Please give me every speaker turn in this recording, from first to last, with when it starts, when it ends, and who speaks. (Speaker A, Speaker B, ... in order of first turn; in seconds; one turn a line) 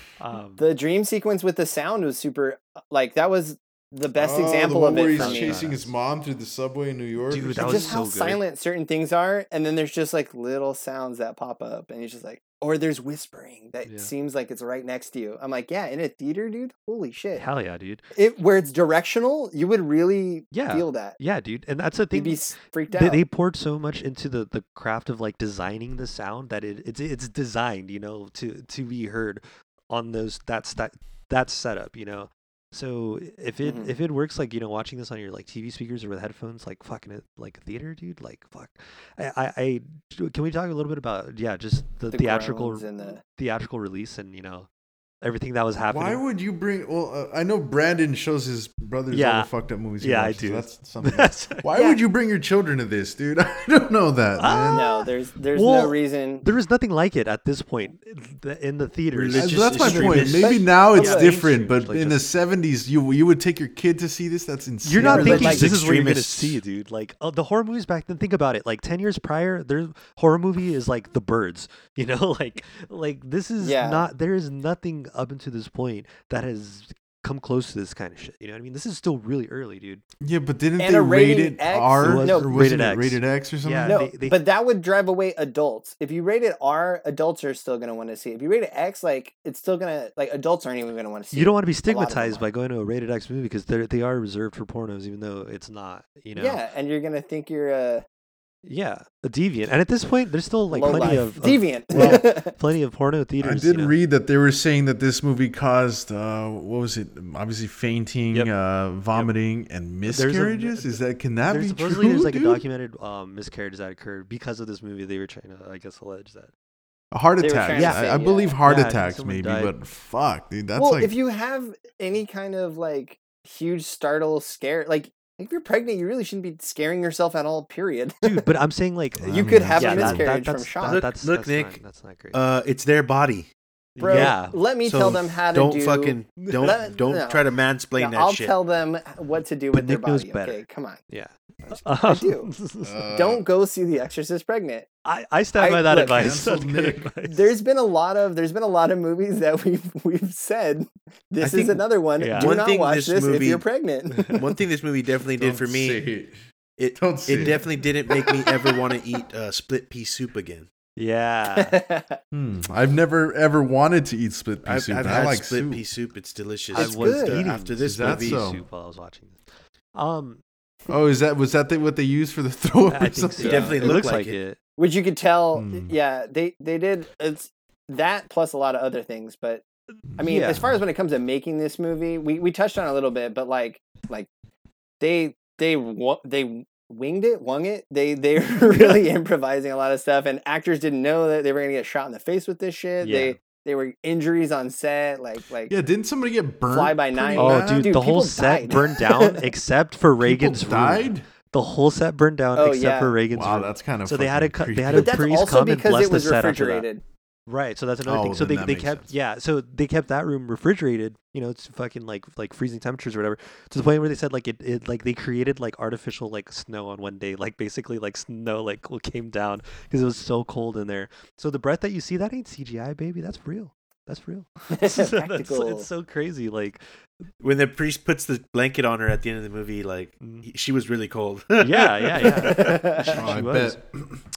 Speaker A: 0.2-0.6
Speaker B: 0.6-5.6
Speaker C: 4.2-7.9
Speaker A: 5.2-5.9
Speaker A: 7.3-8.4
Speaker B: 7.6-17.5
Speaker A: 13.8-14.1
Speaker A: 17.4-18.0
Speaker B: 18.1-21.2
Speaker A: 20.5-44.7
Speaker B: 22.1-23.2
Speaker B: 33.6-33.9
Speaker B: 42.1-43.2
Speaker A: 45.2-46.2
Speaker C: 45.9-54.9
Speaker A: 49.1-49.5
Speaker A: 50.0-51.7
Speaker B: 51.7-52.0
Speaker A: 54.4-60.4
Speaker B: 54.7-56.5
Speaker D: 59.1-60.6
Speaker C: 59.3-65.7
Speaker B: 60.0-61.4
Speaker A: 60.9-62.3
Speaker A: 64.8-80.0
Speaker B: 65.0-65.7
Speaker D: 65.1-66.6
Speaker B: 73.6-74.1
Speaker C: 80.2-84.0
Speaker B: 80.8-82.5
Speaker A: 82.0-84.4
Speaker B: 83.8-92.4
Speaker A: 91.3-96.6
Speaker B: 96.3-98.0
Speaker A: 98.7-104.0
Speaker B: 100.7-102.5
Speaker C: 101.9-102.2
Speaker C: 103.4-112.6
Speaker A: 110.1-116.5
Speaker C: 117.1-121.1
Speaker B: 117.4-118.5
Speaker A: 117.7-118.1
Speaker A: 118.6-119.7
Speaker B: 120.8-128.4
Speaker A: 128.2-132.4
Speaker C: 129.2-130.3
Speaker B: 129.3-131.1
Speaker D: 130.8-131.8
Speaker D: 132.3-133.5
Speaker A: 134.0-134.6
Speaker B: 134.0-141.0
Speaker D: 134.0-138.5
Speaker A: 136.4-136.8
Speaker A: 139.7-143.0
Speaker B: 141.7-142.5
Speaker C: 142.8-143.4
Speaker B: 143.2-144.9
Speaker A: 145.1-147.6
Speaker B: 145.6-146.4
Speaker C: 146.0-147.1
Speaker B: 147.3-154.3
Speaker D: 151.4-153.6
Speaker A: 152.2-152.6
Speaker D: 154.3-156.1
Speaker C: 155.4-156.4
Speaker D: 156.8-160.7
Speaker C: 156.9-158.5
Speaker A: 161.0-161.8
Speaker B: 161.5-162.2
Speaker C: 162.3-165.8
Speaker D: 164.7-168.4
Speaker B: 166.7-167.5
Speaker A: 166.7-169.4
Speaker C: 167.8-168.6
Speaker A: 169.9-170.4
Speaker C: 170.9-173.9
Speaker A: 172.9-174.6
Speaker D: 173.4-174.4
Speaker B: 174.8-179.6
Speaker C: 175.5-175.9
Speaker A: 180.2-180.6
Speaker B: 180.2-184.3
Speaker B: 185.0-195.8
Speaker A: 188.7-189.0
Speaker A: 193.0-193.4
Speaker C: 195.7-198.0
Speaker B: 196.7-199.5
Speaker A: 197.4-206.9
Speaker C: 200.2-201.2
Speaker B: 202.6-203.2
Speaker C: 203.3-205.2
Speaker B: 204.9-207.0
Speaker A: 207.5-226.8
Speaker C: 208.1-209.1
Speaker B: 224.7-225.9
Speaker D: 227.4-232.6
Speaker A: 230.2-230.5
Speaker A: 231.6-233.8
Speaker B: 232.2-233.3
Speaker C: 233.1-234.2